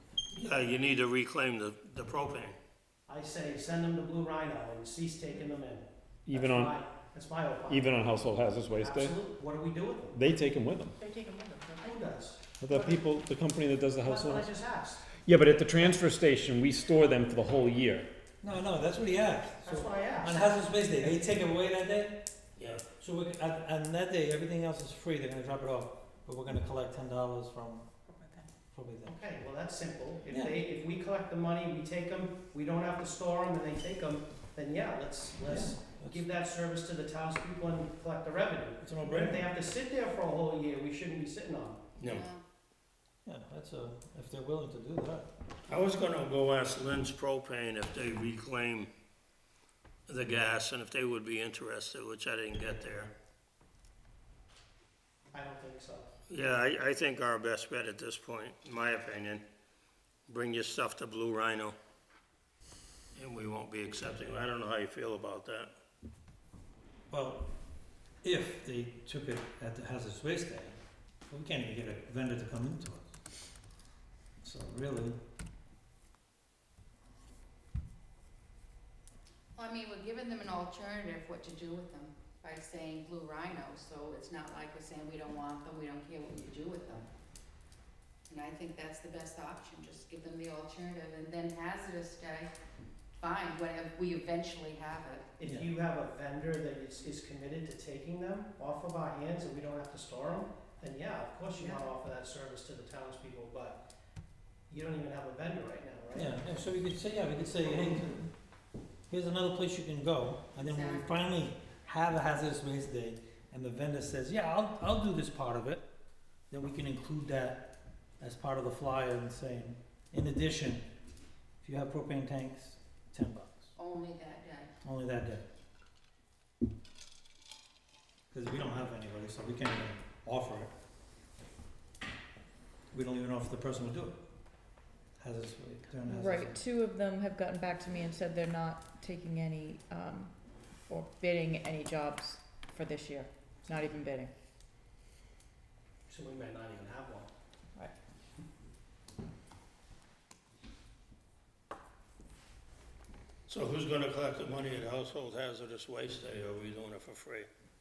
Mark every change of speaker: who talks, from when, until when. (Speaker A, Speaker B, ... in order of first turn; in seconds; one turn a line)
Speaker A: 0.3-2.6
Speaker B: 3.0-8.1
Speaker C: 6.2-6.8
Speaker C: 7.7-9.2
Speaker B: 8.7-10.2
Speaker C: 10.1-10.9
Speaker D: 11.2-11.5
Speaker B: 11.7-13.0
Speaker C: 12.6-14.5
Speaker B: 14.0-15.1
Speaker C: 15.1-18.1
Speaker E: 18.4-22.2
Speaker B: 19.6-20.5
Speaker A: 22.6-22.8
Speaker E: 23.0-27.9
Speaker D: 28.1-28.5
Speaker E: 28.7-29.1
Speaker B: 29.1-41.8
Speaker E: 30.3-30.5
Speaker E: 35.5-36.2
Speaker E: 38.8-39.5
Speaker A: 42.0-42.3
Speaker F: 42.0-42.4
Speaker E: 43.2-45.3
Speaker A: 45.7-48.9
Speaker A: 50.1-53.1
Speaker B: 55.3-56.1
Speaker A: 56.3-59.4
Speaker A: 60.3-61.8
Speaker A: 63.1-65.7
Speaker E: 67.1-67.5
Speaker E: 68.2-73.2
Speaker E: 74.4-75.2
Speaker F: 79.5-87.1
Speaker F: 88.3-92.5
Speaker F: 93.2-95.3
Speaker B: 95.4-103.8
Speaker F: 101.6-101.8
Speaker B: 104.7-106.4
Speaker E: 106.1-108.3
Speaker E: 109.1-115.9
Speaker F: 110.6-111.1
Speaker E: 116.5-120.8
Speaker E: 121.6-123.7
Speaker F: 123.8-124.7
Speaker E: 124.8-125.4
Speaker E: 128.3-130.7
Speaker E: 132.9-134.2
Speaker E: 135.2-136.6
Speaker D: 136.1-140.3
Speaker D: 140.9-144.3
Speaker B: 146.1-147.3
Speaker A: 153.5-157.5